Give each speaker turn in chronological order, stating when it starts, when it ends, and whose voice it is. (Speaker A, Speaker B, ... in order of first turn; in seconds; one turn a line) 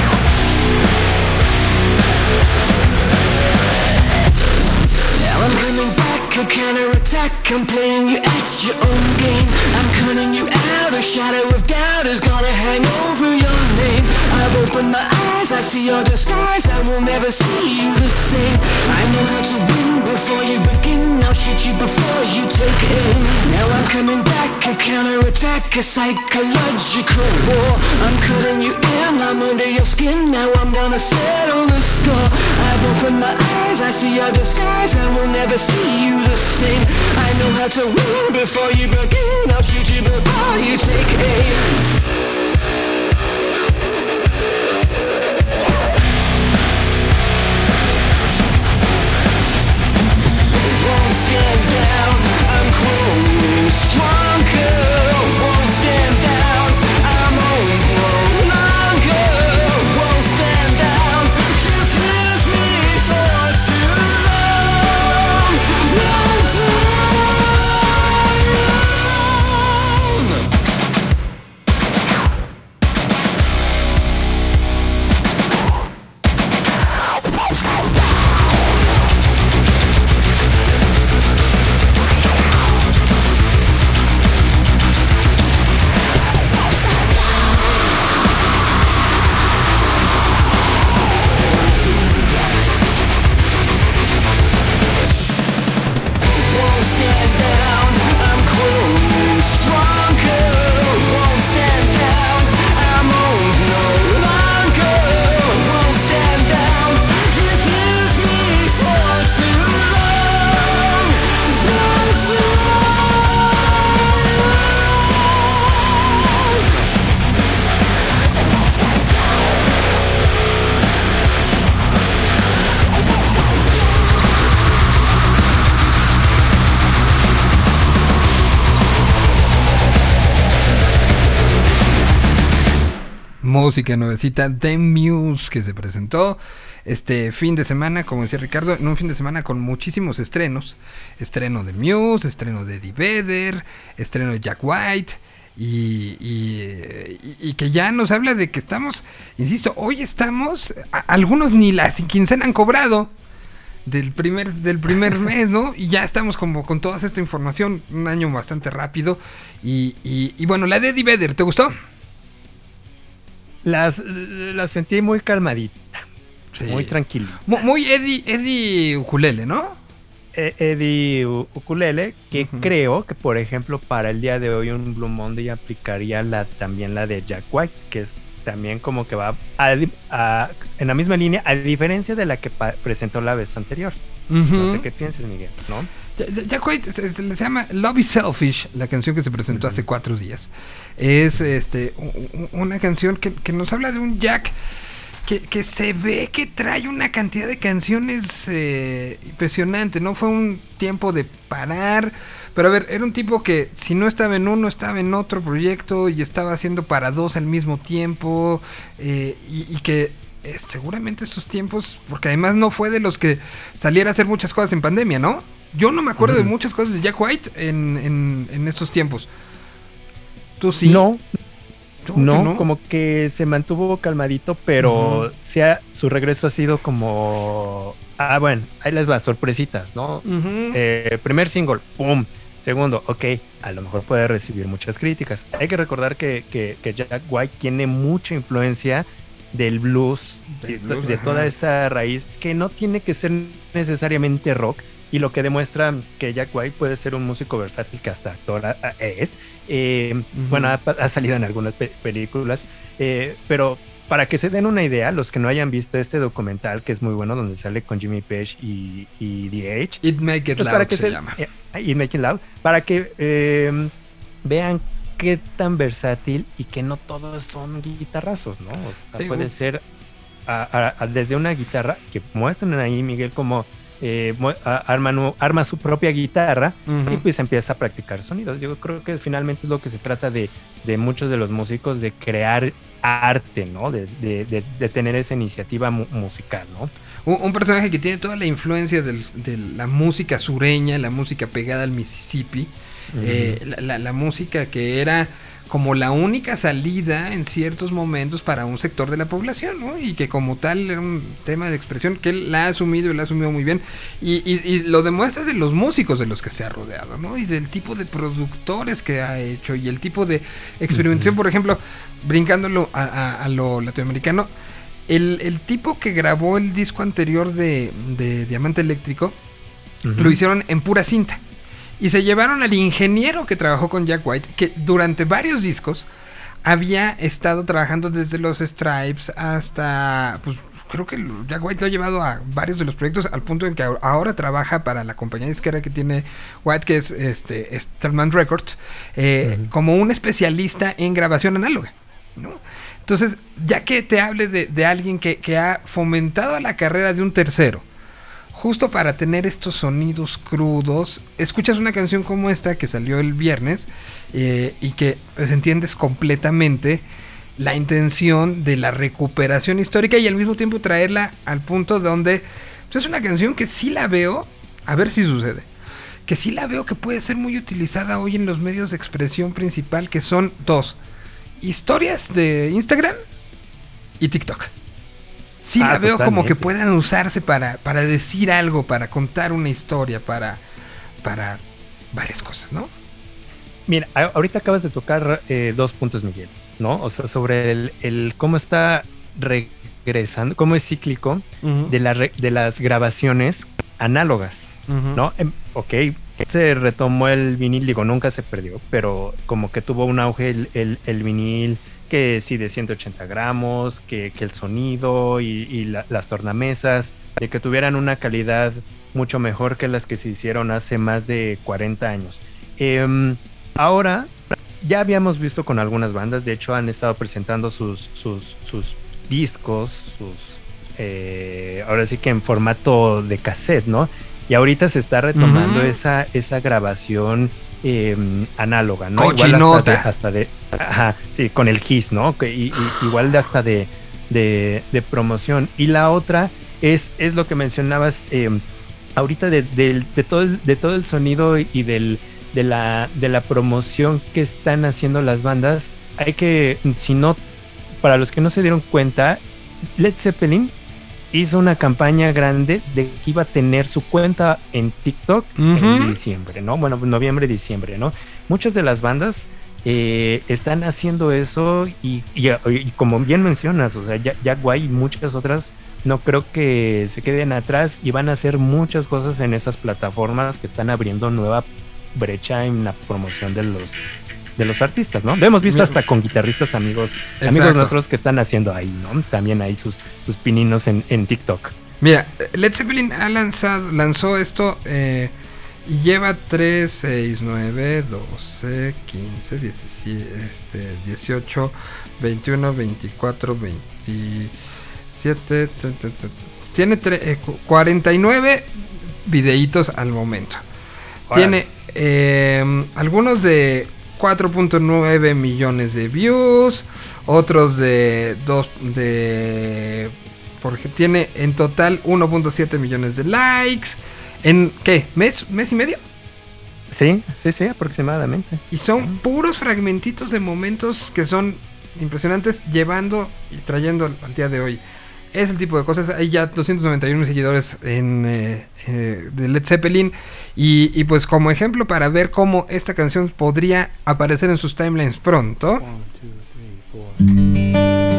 Speaker A: 5.2-41.8
Speaker A: 50.7-64.9
Speaker A: 65.9-67.1
Speaker A: 96.5-110.8
Speaker A: 111.8-112.1
Speaker B: 133.4-153.1
Speaker B: 153.8-161.7
Speaker C: 163.6-166.0
Speaker B: 166.5-166.9
Speaker C: 166.6-167.6
Speaker B: 167.5-169.8
Speaker C: 170.3-184.0
Speaker B: 172.3-172.7
Speaker B: 184.3-184.8
Speaker C: 184.5-185.9
Speaker B: 186.2-194.6
Speaker C: 189.5-189.8
Speaker B: 195.2-219.3
Speaker C: 216.2-216.5
Speaker B: 220.6-221.1
Speaker C: 220.8-221.2
Speaker B: 222.0-222.7
Speaker C: 222.1-260.0
Speaker B: 224.8-225.3
Speaker B: 230.2-230.8
Speaker B: 240.6-241.5
Speaker B: 250.3-250.8
Speaker B: 260.0-261.4
Speaker C: 260.6-263.9
Speaker C: 264.4-269.8
Speaker B: 269.2-269.5
Speaker C: 270.5-286.9
Speaker B: 276.9-277.2
Speaker B: 287.2-314.5
Speaker C: 293.1-293.6
Speaker C: 310.9-311.3
Speaker B: 315.1-319.4
Speaker C: 320.0-320.4
Speaker B: 320.2-321.4
Speaker B: 322.0-326.1
Speaker B: 326.6-347.8
Speaker C: 339.4-339.7
Speaker B: 348.5-357.0
Speaker B: 357.6-365.7
Speaker B: 366.3-371.0
Speaker B: 371.6-373.2
Speaker B: 374.2-374.7
Speaker B: 375.6-380.6
Speaker C: 375.8-376.7
Speaker B: 381.2-381.6
Speaker B: 382.1-382.9
Speaker C: 383.9-438.6
Speaker B: 391.6-391.9
Speaker B: 394.9-395.2
Speaker B: 425.4-425.9
Speaker B: 429.1-430.1
Speaker C: 439.1-447.4
Speaker C: 448.0-449.4
Speaker C: 450.0-450.7
Speaker C: 451.3-474.0
Speaker B: 455.6-456.2
Speaker C: 474.6-481.8
Speaker B: 475.6-476.0
Speaker B: 477.4-477.9
Speaker B: 482.0-485.3
Speaker B: 485.9-494.5
Speaker B: 495.1-498.7
Speaker B: 499.2-500.6
Speaker C: 501.3-501.6
Speaker B: 501.3-516.0
Speaker C: 516.9-519.2
Speaker B: 518.7-524.8
Speaker B: 525.3-535.9